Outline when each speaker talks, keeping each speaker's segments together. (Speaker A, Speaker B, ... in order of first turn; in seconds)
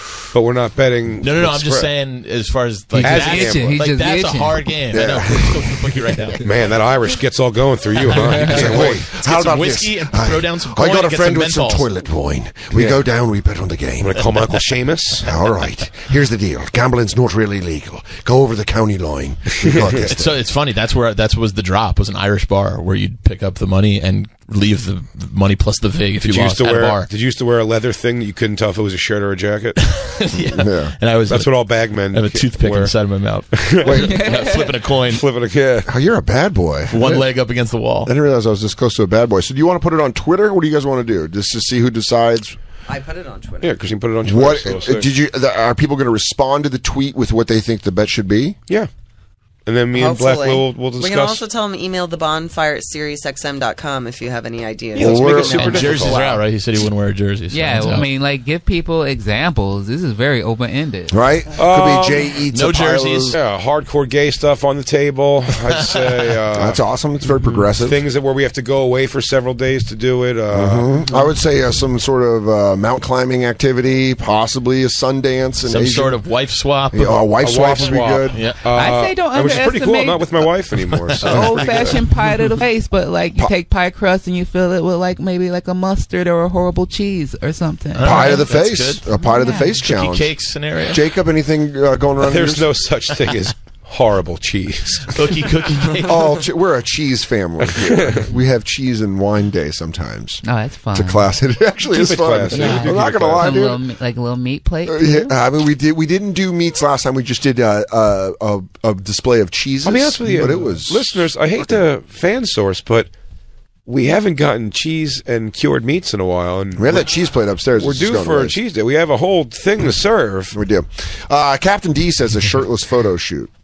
Speaker A: 0.3-1.9, 3.0-3.7, 6.4-9.1, 12.7-13.0, 14.0-15.3, 19.6-20.1, 26.2-29.8, 31.3-32.9, 33.5-34.3, 35.1-35.9, 43.6-45.1, 49.6-51.4, 54.9-56.4, 61.5-62.4, 63.3-66.8, 67.8-70.9, 77.4-82.0, 92.2-95.2, 97.8-98.2, 101.9-103.8, 109.8-113.1, 113.8-117.1, 117.8-120.5
Speaker B: 1.2-6.4, 8.4-11.9, 20.0-27.1, 29.8-35.2, 36.9-38.1, 55.2-58.1, 62.5-63.4, 75.7-77.2, 78.3-78.7, 80.7-81.7, 87.9-89.1, 89.7-91.0, 95.1-96.4
Speaker C: 3.0-4.7, 33.9-34.8, 57.5-61.2, 78.7-80.3, 81.2-88.5, 89.2-89.8, 100.4-101.3, 102.5-105.3, 110.2-110.8
Speaker D: 4.9-6.0, 8.2-14.3, 15.2-20.4, 30.5-30.9, 33.8-34.3, 35.9-37.2, 38.0-42.6, 44.2-48.6, 55.0-56.3, 61.1-63.4, 66.5-68.0, 70.5-76.2, 76.9-78.4, 88.0-92.7, 95.9-103.8, 104.8-111.8, 116.8-118.6, 120.5-123.5
Speaker E: 42.9-43.8, 49.9-55.9